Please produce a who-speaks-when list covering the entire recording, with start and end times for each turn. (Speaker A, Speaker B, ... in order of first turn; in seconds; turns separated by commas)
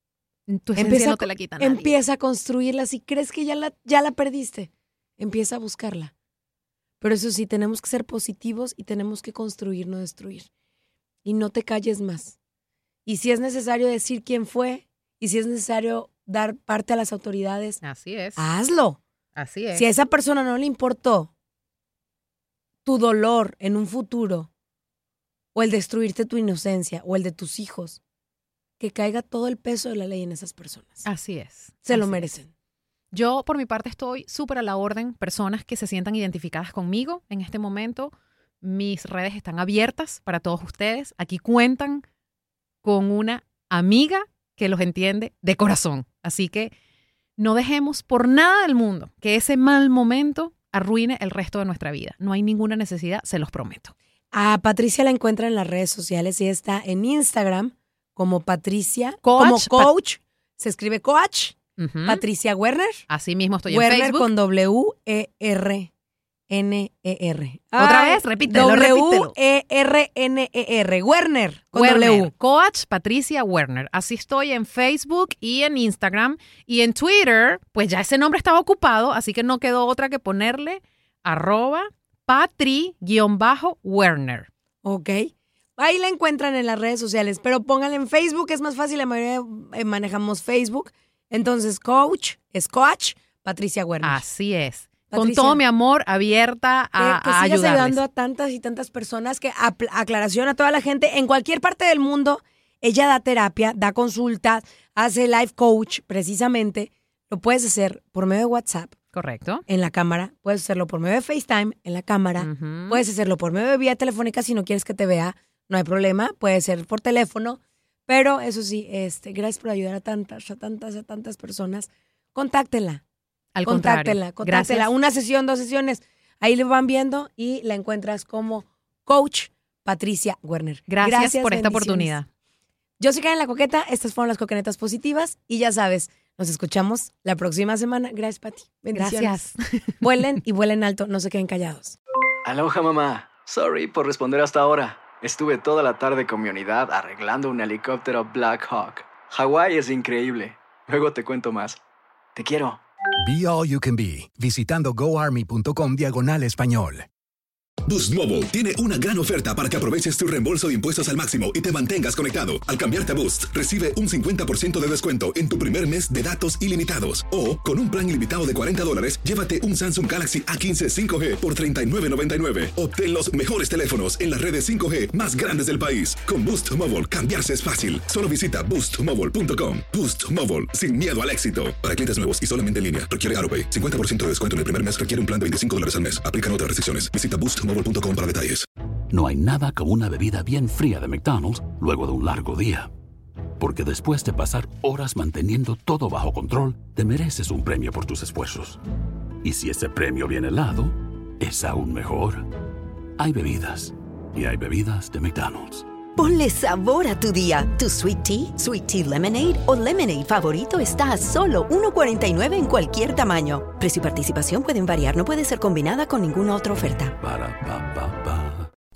Speaker A: 0.5-1.9, Speaker B: 0.8-6.1, Speaker B: 7.0-10.5, Speaker B: 11.2-12.4, Speaker B: 13.1-17.8, Speaker A: 17.8-18.4, Speaker B: 18.4-19.0, Speaker A: 19.4-19.9, Speaker B: 19.7-21.3, Speaker B: 22.9-24.5, Speaker B: 25.6-28.0, Speaker B: 28.8-31.1, Speaker A: 31.0-32.3, Speaker B: 31.9-32.5, Speaker A: 33.1-42.0, Speaker A: 42.8-46.7, Speaker A: 47.4-53.9, Speaker B: 54.3-63.1, Speaker A: 59.2-59.9, Speaker A: 61.8-62.2, Speaker A: 63.1-64.3, Speaker B: 63.7-65.9, Speaker B: 66.5-72.3, Speaker A: 67.8-69.3, Speaker A: 71.7-84.5, Speaker B: 84.8-94.2, Speaker A: 94.0-98.0, Speaker B: 95.1-95.6, Speaker B: 97.0-109.0, Speaker A: 109.1-109.7, Speaker B: 109.7-123.0, Speaker A: 112.4-113.0, Speaker A: 123.5-124.9, Speaker B: 123.7-132.2, Speaker A: 130.9-132.3, Speaker B: 133.0-139.4, Speaker A: 138.9-140.0, Speaker B: 140.0-142.0, Speaker C: 142.4-151.8, Speaker C: 152.3-152.8, Speaker D: 153.2-157.1, Speaker E: 157.8-188.7, Speaker F: 189.1-192.9, Speaker F: 193.6-198.8, Speaker F: 199.4-202.5, Speaker F: 203.2-205.9, Speaker G: 206.2-217.1, Speaker F: 217.2-218.7